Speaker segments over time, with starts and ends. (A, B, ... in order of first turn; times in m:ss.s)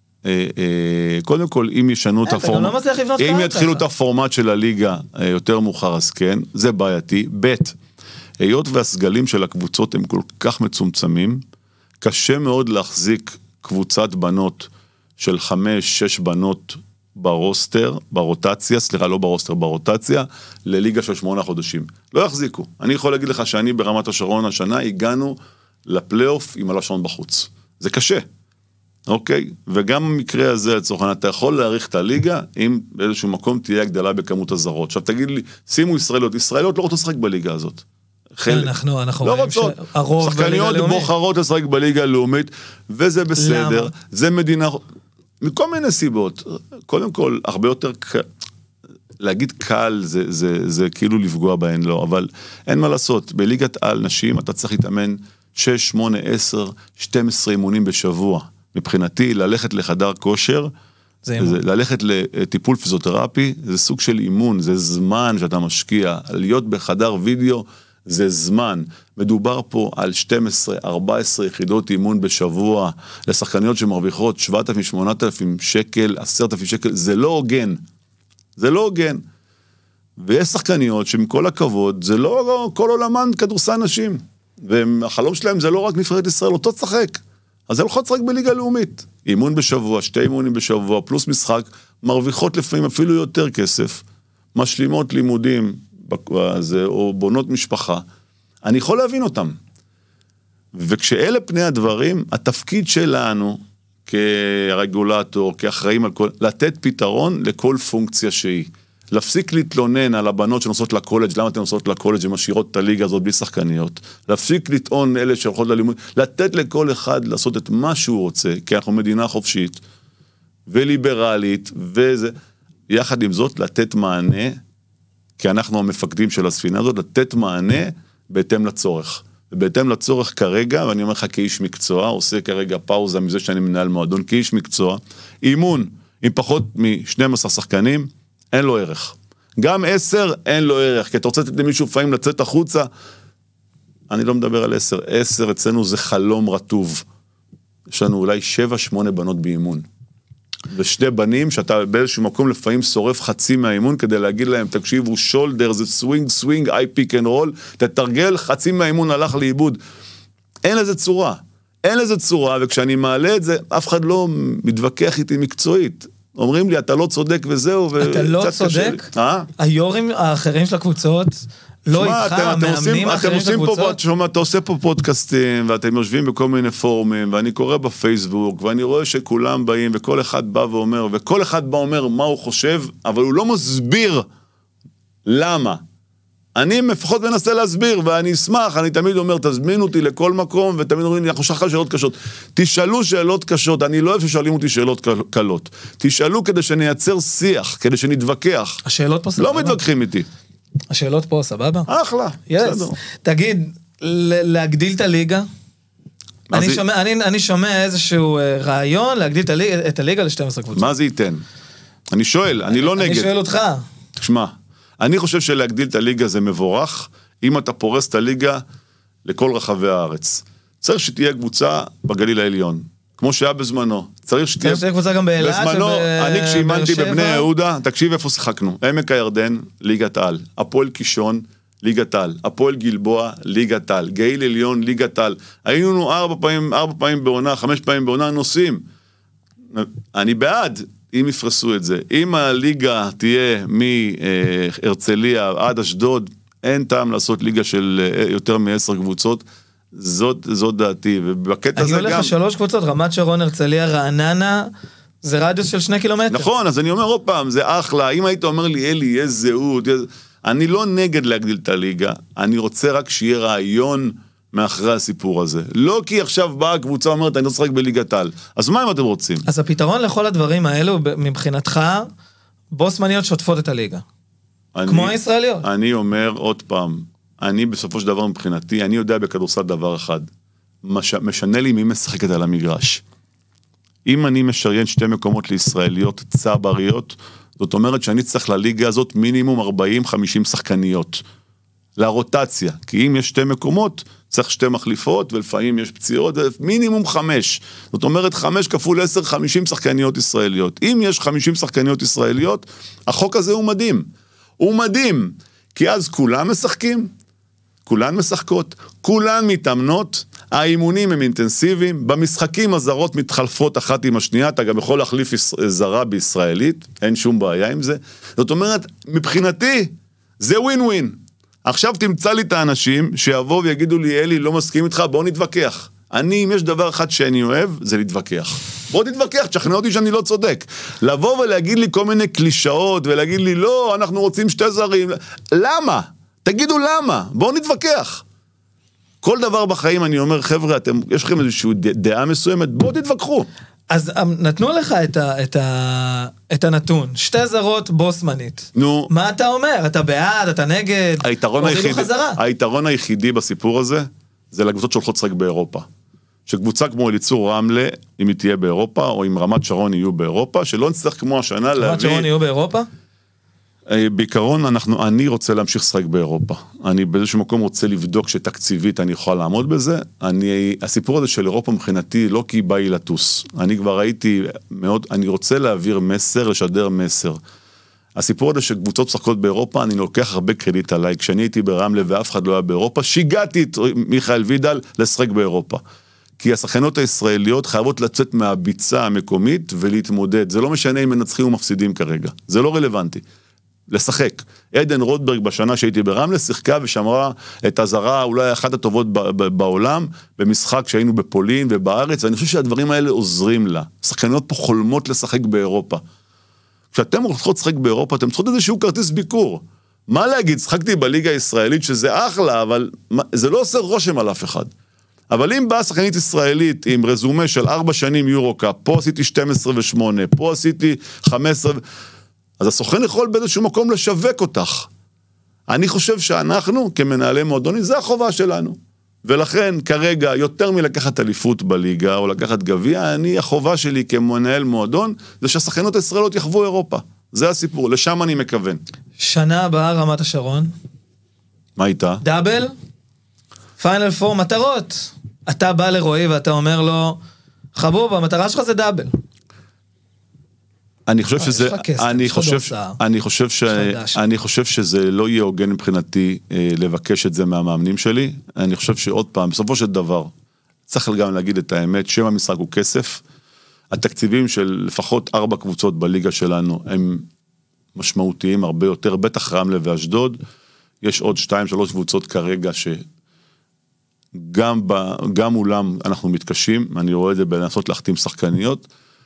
0:00.2-0:07.8 A
0:02.2-0:03.8 B
0:08.4-0:11.4 A
0:12.0-0:28.2 A
0:29.1-0:37.8 A
0:38.4-0:44.8 A
0:38.5-0:41.1 B
0:43.4-0:43.9 B
0:45.4-0:48.2 A
0:49.2-1:00.7 A
1:01.2-1:01.6 B
1:01.4-1:17.8 A
1:18.6-1:19.2 A
1:20.2-1:38.0 A
1:38.6-1:39.6 A
1:40.7-1:59.8 A
2:00.7-2:02.3 A
2:02.9-2:04.6 A
2:05.4-2:22.9 A
2:24.1-2:27.1 A
2:27.9-2:29.9 A
2:30.7-2:39.8 A
2:40.6-2:49.5 A
2:48.0-2:54.0 B
2:51.9-3:04.2 A
3:05.3-3:05.8 A
3:06.6-3:18.8 A
3:18.8-3:19.8 B
3:19.4-3:20.3 A
3:20.9-3:21.9 B
3:21.9-3:23.0 A
3:22.5-3:25.5 B
3:26.5-3:26.8 A
3:26.5-3:30.9 B
3:30.8-3:31.4 A
3:32.1-3:33.3 A
3:32.7-3:33.8 B
3:34.2-3:38.6 A
3:39.2-3:44.8 A
3:44.6-3:47.5 B
3:45.4-3:58.8 A
3:59.7-4:12.3 A
4:11.8-4:14.7 B
4:15.2-4:16.5 B
4:16.3-4:29.4 A
4:29.5-4:32.1 B
4:32.7-4:34.0 B
4:34.7-4:40.3 A
4:34.9-4:35.7 B
4:40.8-4:43.0 A
4:44.0-4:51.2 A
4:52.0-5:04.1 A
5:04.6-5:07.1 A
5:07.8-5:38.2 A
5:39.2-5:43.5 A
5:43.9-5:52.4 B
5:48.8-5:49.1 A
5:51.2-5:55.9 A
5:56.5-6:02.3 A
6:01.8-6:02.9 B
6:03.9-6:17.4 A
6:18.2-6:25.8 A
6:26.4-6:33.2 A
6:33.9-6:46.0 A
6:46.9-6:54.7 A
6:55.3-7:01.8 A
7:02.6-7:04.9 A
7:05.7-7:18.8 A
7:19.2-7:20.7 B
7:21.8-7:22.2 A
7:22.2-7:22.7 B
7:23.8-7:27.2 B
7:27.8-7:29.1 B
7:31.1-7:40.3 A
7:31.4-7:33.0 B
7:33.7-7:34.2 B
7:40.9-7:43.2 A
7:43.9-7:47.3 A
7:48.0-7:50.4 A
7:51.0-7:53.0 A
7:54.3-7:58.9 A